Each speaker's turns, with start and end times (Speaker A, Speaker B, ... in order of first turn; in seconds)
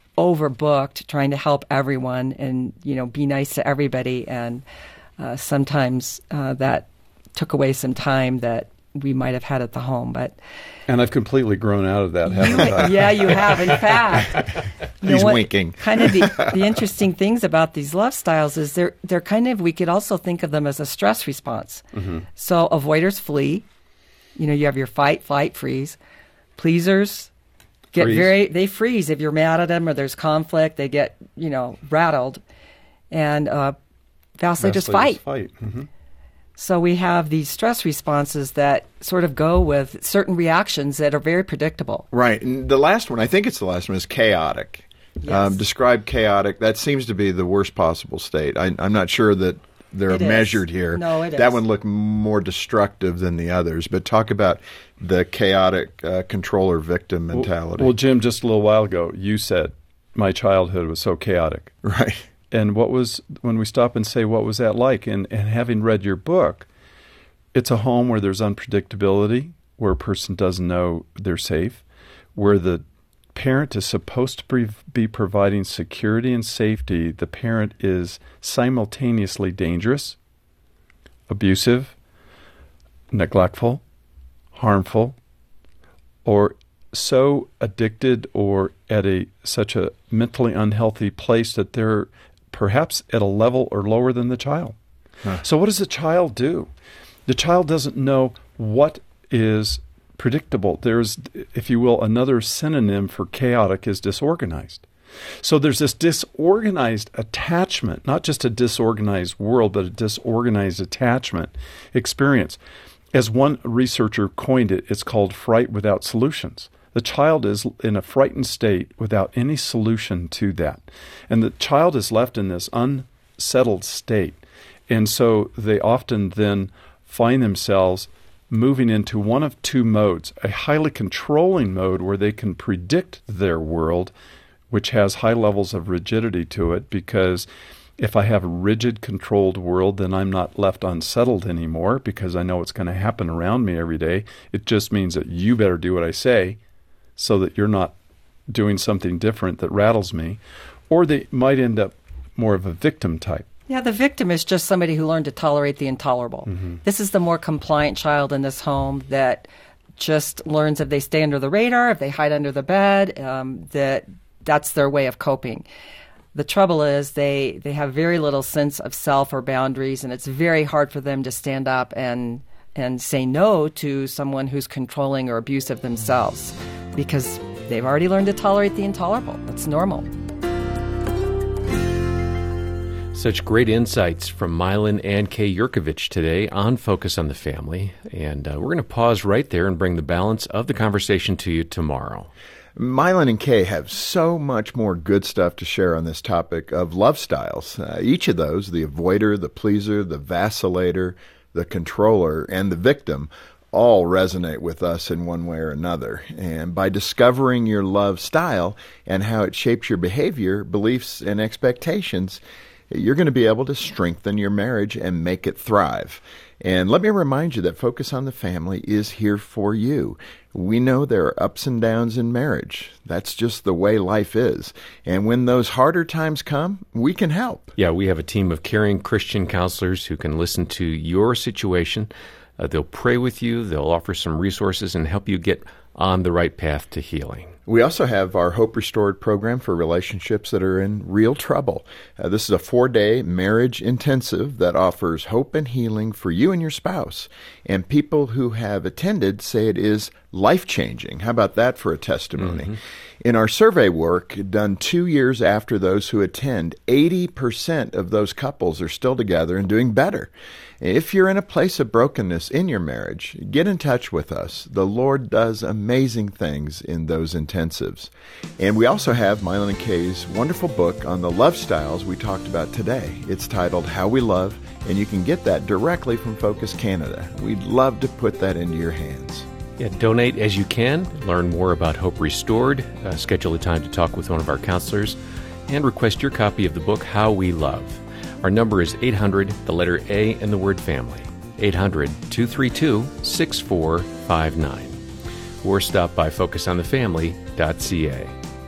Speaker A: 0.2-4.6, 5.2-10.4, 12.3-23.6, 24.4-26.0, 26.6-27.3, 27.9-32.4, 33.1-33.8, 34.4-35.2, 36.6-42.1, 45.2-45.6, 50.1-51.6, 153.7-165.7, 166.3-180.1
Speaker B: 10.9-13.9, 21.9-22.3, 27.9-28.4, 34.6-35.9, 57.3-61.8, 62.5-66.7, 67.5-71.8, 72.3-72.8, 73.3-80.2, 81.3-82.0, 83.1-83.8, 84.5-85.2, 86.2-94.8, 95.4-96.7, 97.3-104.8, 105.4-112.6, 113.1-134.1, 134.7-137.5, 138.0-146.6, 147.2-147.9, 148.5-153.5, 156.5-156.8
Speaker C: 15.0-16.7, 42.1-57.9, 61.8-62.3, 192.8-227.7, 237.7-279.5
Speaker D: 183.1-192.3, 227.8-237.6, 279.8-295.0, 295.6-298.3